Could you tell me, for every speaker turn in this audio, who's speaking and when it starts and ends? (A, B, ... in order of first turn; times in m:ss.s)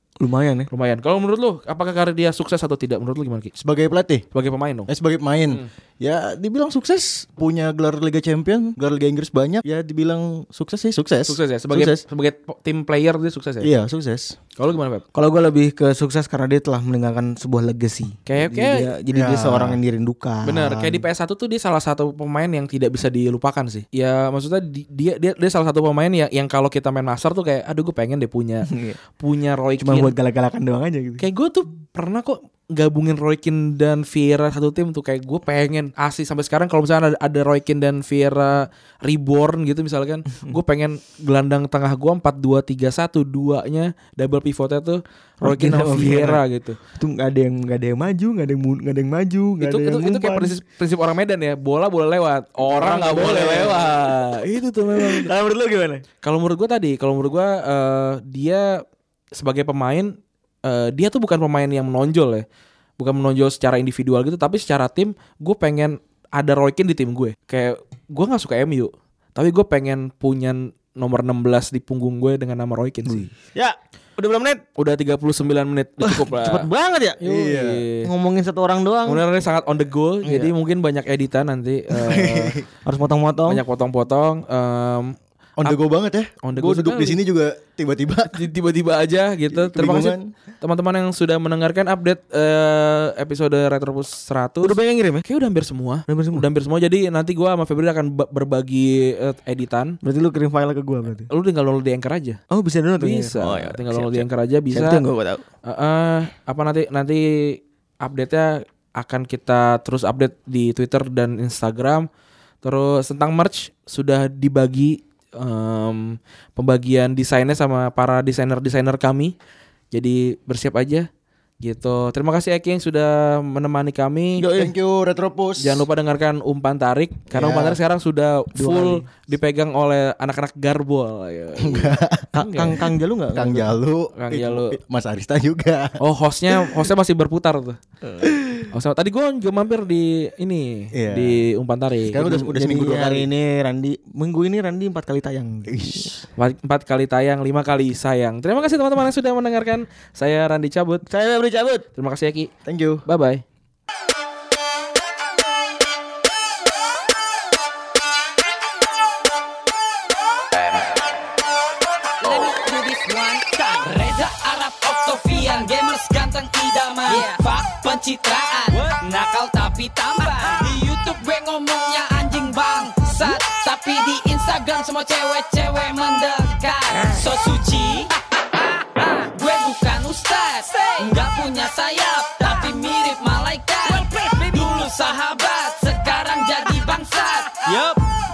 0:00.2-0:00.7 A
0:00.7-0:03.5 B
0:03.6-0:04.2 C
0:04.3-0:04.9 B
0:04.9-0:12.0 C
0:11.2-0:13.7 B
0:13.6-0:14.4 C
0:14.6-0:15.0 B
0:15.1-0:21.0 A
0:18.3-0:18.9 B
0:19.1-0:19.8 C
0:20.4-0:30.1 B
0:28.7-0:29.0 A
0:29.8-0:31.2 A
0:31.2-0:46.8 B
0:45.4-0:46.4 A
0:47.0-0:50.6 A
0:49.6-0:55.3 B
0:52.7-0:54.1 A
0:54.9-0:56.0 A
0:56.2-1:00.1 B
1:00.6-1:02.5 B
1:03.0-1:13.3 B
1:13.1-1:14.6 A
1:14.8-1:16.7 B
1:16.0-1:17.2 A
1:17.2-1:18.1 B
1:17.2-1:17.8 C
1:18.0-1:19.2 A
1:19.1-1:22.6 B
1:20.2-1:20.5 A
1:22.0-1:22.6 C
1:22.9-1:23.6 A
1:23.5-1:25.8 B
1:25.6-1:28.4 C
1:26.4-1:27.2 B
1:28.3-1:40.0 B
1:29.5-1:30.3 C
1:34.6-1:35.2 A
1:36.1-1:36.5 A
1:40.0-1:41.3 A
1:41.3-1:42.4 B
1:42.5-1:45.4 A
1:43.0-1:45.0 B
1:45.7-1:52.1 B
1:52.6-1:59.4 B
1:59.9-2:01.1 B
2:01.6-2:04.4 B
2:04.4-2:04.7 A
2:04.5-2:05.8 C
2:05.6-2:12.8 B
2:07.4-2:07.8 A
2:08.6-2:09.1 A
2:11.6-2:12.8 C
2:12.4-2:13.7 A
2:13.3-2:16.0 C
2:14.2-2:14.8 B
2:16.0-2:17.8 B
2:16.5-2:16.8 C
2:18.1-2:18.6 A
2:18.7-2:22.2 B
2:20.9-2:21.4 C
2:22.1-2:23.3 C
2:22.2-2:26.1 A
2:25.7-2:26.2 C
2:26.4-2:31.0 B
2:31.1-2:31.8 A
2:32.0-2:32.5 B
2:32.6-2:33.0 C
2:33.1-2:33.4 B
2:42.2-2:58.1 D
2:59.0-3:08.0 D